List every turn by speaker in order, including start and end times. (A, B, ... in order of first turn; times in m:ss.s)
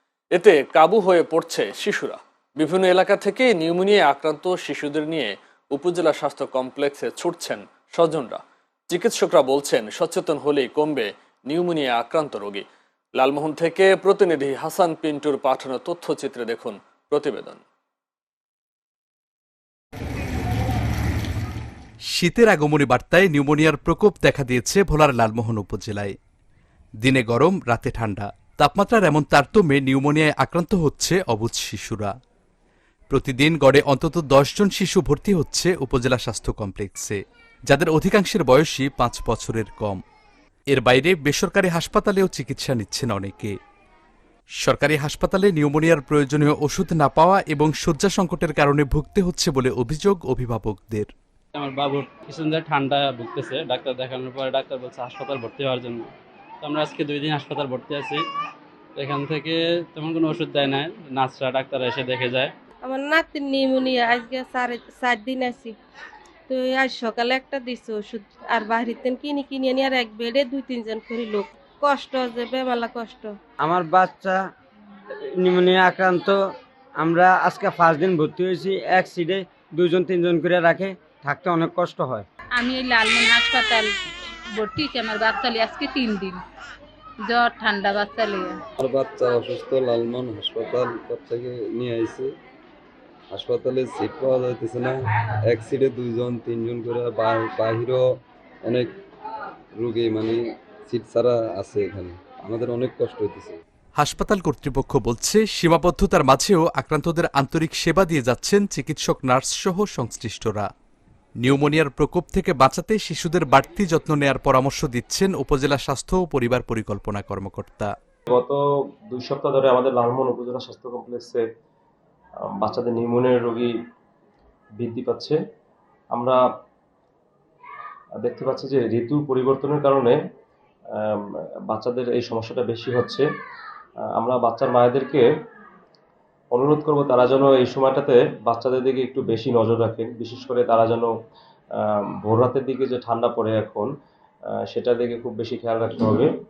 0:00.3-0:12.6 A
0:13.2-0:17.6 A
0:22.1-0:26.1 B
0:27.0-0:32.1 B
0:33.1-0:37.2 B
0:37.7-0:40.0 B
0:40.7-0:43.5 B
0:44.6-0:51.1 B
0:51.6-0:58.2 C
0:59.0-1:02.5 C
1:02.8-1:05.8 D
1:06.5-1:13.4 D
1:13.6-1:14.4 E
1:15.4-1:16.4 E
1:17.0-1:22.2 E
1:22.5-1:23.9 F
1:24.5-1:26.4 F
1:27.2-1:28.6 F
1:28.8-1:32.3 G
1:33.3-1:38.0 G
1:38.6-1:38.9 G
1:39.8-1:43.6 G
1:44.0-1:50.7 B
1:51.4-1:57.9 B
1:58.3-2:01.4 H
2:02.5-2:03.7 H
2:04.8-2:05.4 H
2:06.1-2:06.4 H
2:08.2-2:10.2 H
2:11.7-2:13.2 H
2:14.2-2:15.3 H
2:16.5-2:21.1 H
2:22.0-2:23.9 H
2:24.7-2:26.3 H